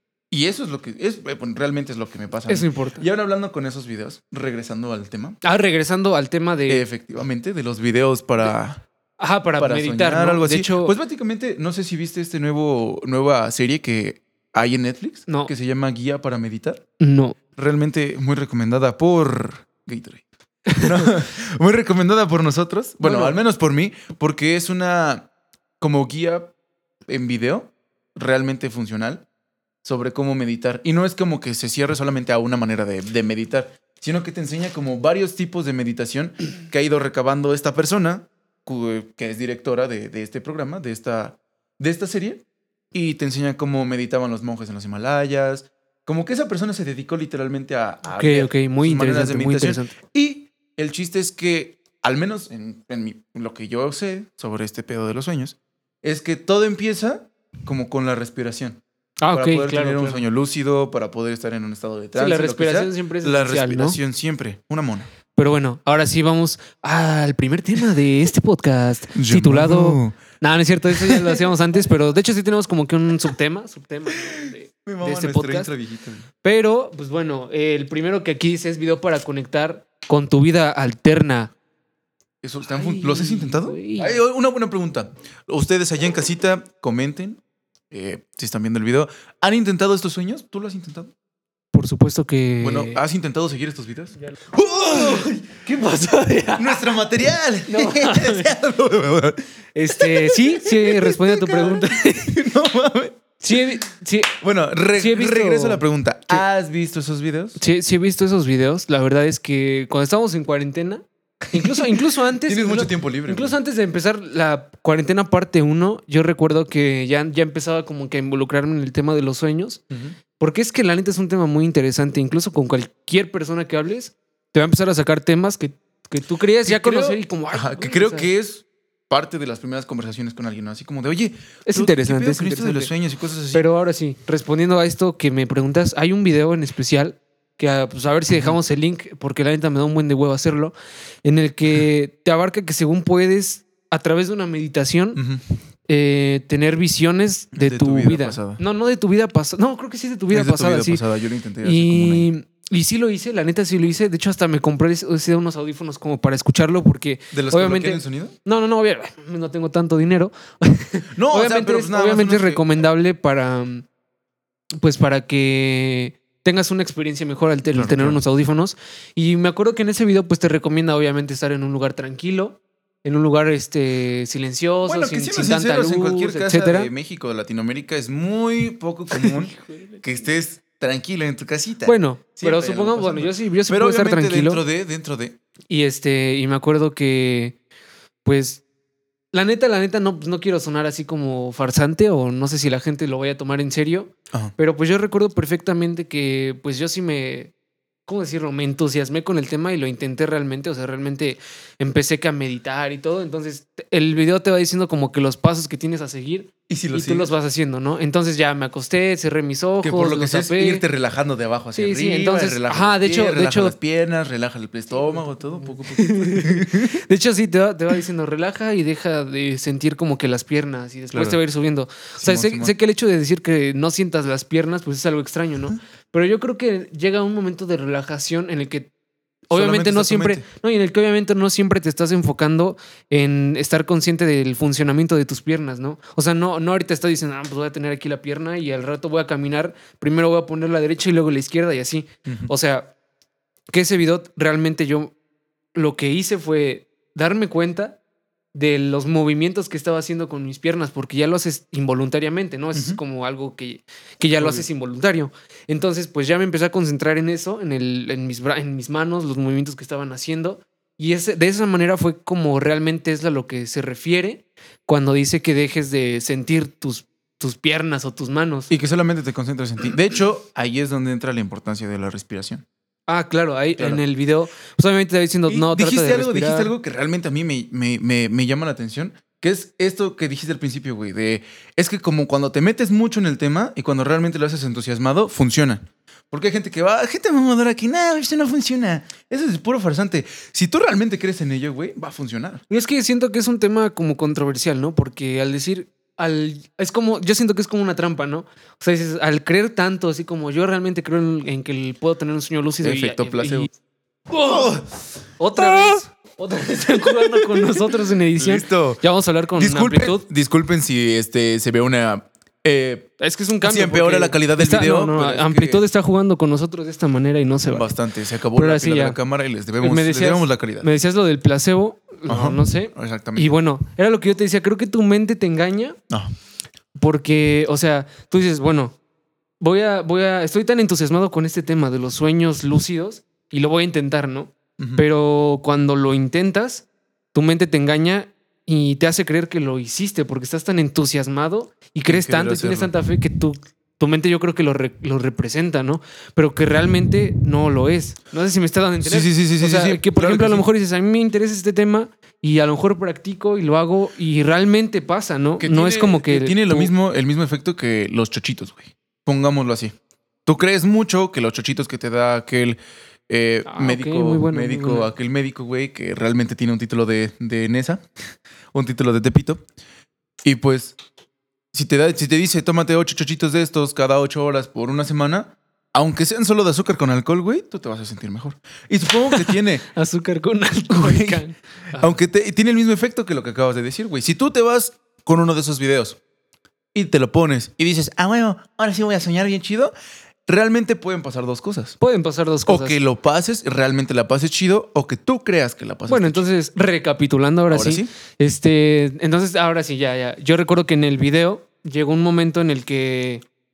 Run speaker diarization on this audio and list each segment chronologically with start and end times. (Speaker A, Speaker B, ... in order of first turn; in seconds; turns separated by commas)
Speaker A: 0.3-5.4, Speaker B: 2.5-3.0, Speaker B: 5.4-6.8, Speaker A: 6.7-8.8, Speaker B: 9.2-10.9, Speaker A: 9.6-16.9, Speaker B: 15.3-15.5, Speaker B: 17.0-17.4, Speaker A: 17.6-25.3, Speaker B: 23.0-23.4, Speaker A: 25.8-26.5, Speaker A: 27.1-29.2, Speaker A: 29.8-42.4, Speaker A: 42.9-65.1, Speaker B: 48.1-49.9, Speaker B: 59.2-60.2, Speaker B: 62.1-64.0, Speaker B: 65.3-75.7, Speaker A: 69.1-70.2, Speaker A: 70.9-71.4, Speaker A: 74.2-76.3, Speaker B: 76.4-81.5, Speaker A: 82.4-87.4, Speaker B: 82.7-84.2, Speaker A: 87.9-91.1, Speaker B: 91.7-93.0, Speaker A: 92.6-95.5, Speaker B: 94.8-96.8, Speaker A: 96.5-99.4, Speaker B: 97.7-98.5, Speaker B: 99.7-102.3, Speaker A: 99.9-103.6, Speaker B: 103.4-104.3, Speaker A: 104.4-107.6, Speaker B: 104.9-106.4, Speaker B: 107.6-119.8, Speaker A: 111.5-113.6, Speaker A: 119.9-120.2, Speaker B: 120.4-128.3, Speaker A: 126.6-133.7, Speaker B: 131.6-132.9, Speaker B: 133.5-140.7, Speaker A: 138.3-138.6, Speaker B: 141.2-145.2, Speaker A: 145.2-145.4, Speaker B: 145.9-151.0, Speaker A: 147.5-148.6, Speaker A: 150.3-152.3, Speaker B: 151.6-163.8, Speaker A: 157.3-158.3, Speaker A: 161.1-162.8, Speaker B: 164.8-176.9, Speaker A: 167.7-168.2, Speaker A: 174.8-185.4, Speaker B: 179.1-180.0, Speaker B: 181.8-184.6, Speaker B: 185.7-187.6, Speaker B: 188.2-188.6, Speaker B: 189.3-197.5, Speaker B: 198.1-210.8, Speaker A: 206.7-207.3, Speaker A: 209.8-217.0, Speaker B: 211.7-213.8, Speaker B: 214.9-228.9, Speaker A: 221.1-221.4, Speaker A: 222.2-222.7, Speaker B: 229.5-242.9, Speaker A: 229.5-230.4, Speaker A: 242.2-242.5, Speaker B: 243.7-245.1, Speaker B: 245.7-248.0, Speaker B: 248.5-268.7, Speaker A: 252.7-253.0, Speaker A: 254.3-254.7, Speaker A: 268.7-272.6, Speaker B: 273.1-276.7, Speaker A: 273.8-274.0, Speaker A: 275.5-292.6, Speaker B: 292.7-303.7, Speaker A: 302.8-303.7, Speaker B: 304.3-304.7, Speaker A: 304.4-304.9, Speaker B: 305.4-310.2, Speaker A: 305.6-306.0, Speaker A: 307.4-307.7, Speaker A: 308.4-309.0, Speaker A: 309.5-315.8, Speaker B: 313.2-317.9, Speaker A: 317.6-320.9, Speaker B: 318.5-319.2, Speaker B: 319.8-326.0, Speaker A: 322.3-323.5, Speaker A: 326.1-326.3, Speaker B: 326.9-328.9, Speaker B: 329.6-356.9, Speaker A: 334.8-335.1, Speaker A: 342.1-342.9, Speaker A: 349.0-350.7, Speaker A: 355.6-359.9, Speaker A: 360.4-368.1, Speaker B: 363.6-365.1, Speaker A: 368.7-369.6, Speaker A: 370.4-371.0, Speaker A: 371.7-379.9, Speaker B: 379.3-382.2, Speaker A: 380.9-381.4, Speaker A: 382.0-386.2, Speaker A: 386.9-389.9, Speaker A: 390.5-391.9, Speaker B: 392.0-393.0, Speaker A: 392.6-396.4, Speaker B: 396.1-403.4, Speaker A: 397.7-398.1